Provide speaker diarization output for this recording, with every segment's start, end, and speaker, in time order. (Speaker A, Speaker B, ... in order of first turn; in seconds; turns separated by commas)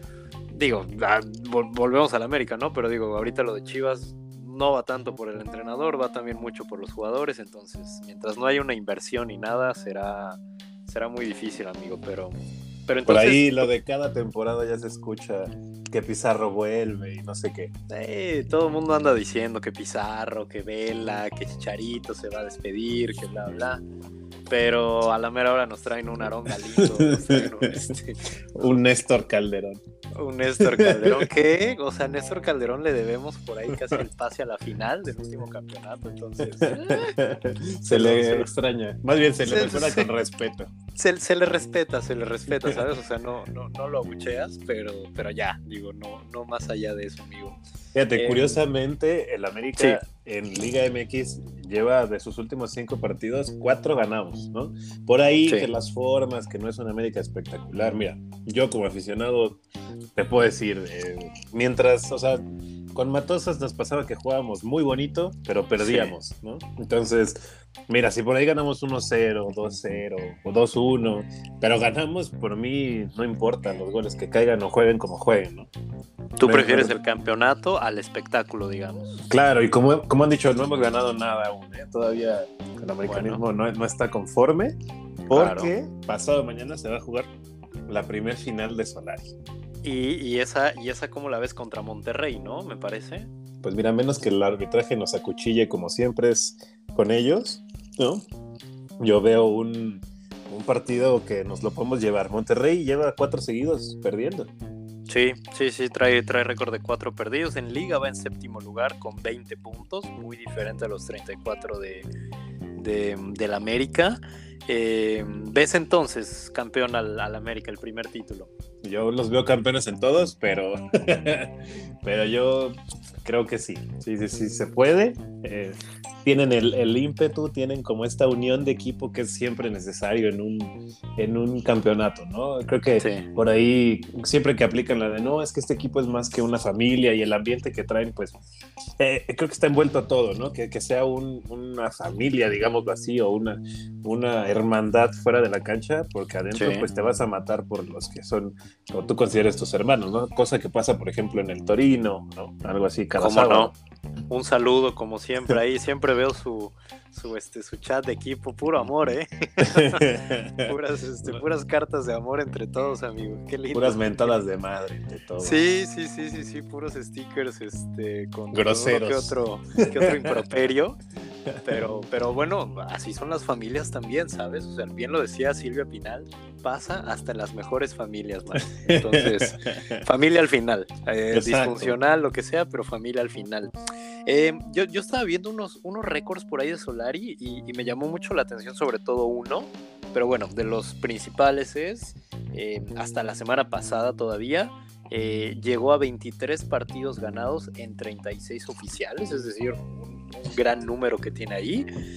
Speaker A: 0.5-13.7, Speaker B: 13.0-17.7, Speaker A: 17.9-23.8, Speaker A: 24.5-28.3, Speaker B: 26.6-27.8, Speaker B: 28.5-29.8, Speaker A: 30.1-37.2, Speaker B: 30.6-31.3, Speaker B: 33.7-34.0, Speaker B: 36.4-40.7, Speaker A: 37.9-38.5, Speaker A: 39.4-40.1, Speaker A: 41.0-47.6, Speaker B: 47.9-59.6, Speaker A: 48.1-48.6, Speaker B: 60.1-62.4, Speaker B: 62.9-75.7, Speaker A: 65.8-66.1, Speaker A: 76.4-79.2, Speaker B: 76.4-77.0, Speaker B: 79.2-84.7, Speaker A: 83.0-83.4, Speaker B: 85.3-87.3, Speaker A: 85.3-85.7, Speaker B: 87.9-89.3, Speaker A: 89.8-93.3, Speaker B: 93.6-98.2, Speaker B: 99.0-104.5, Speaker A: 105.1-112.1, Speaker A: 112.8-118.5, Speaker B: 118.8-138.3, Speaker A: 133.0-133.3, Speaker B: 139.0-153.7, Speaker A: 146.5-146.8, Speaker A: 153.2-153.7, Speaker A: 154.3-164.3, Speaker B: 159.6-160.7, Speaker B: 163.7-165.6, Speaker A: 165.4-171.0, Speaker B: 168.5-170.4, Speaker B: 171.5-171.8, Speaker A: 171.6-183.7, Speaker B: 178.7-180.0, Speaker B: 181.3-182.0, Speaker A: 184.2-201.9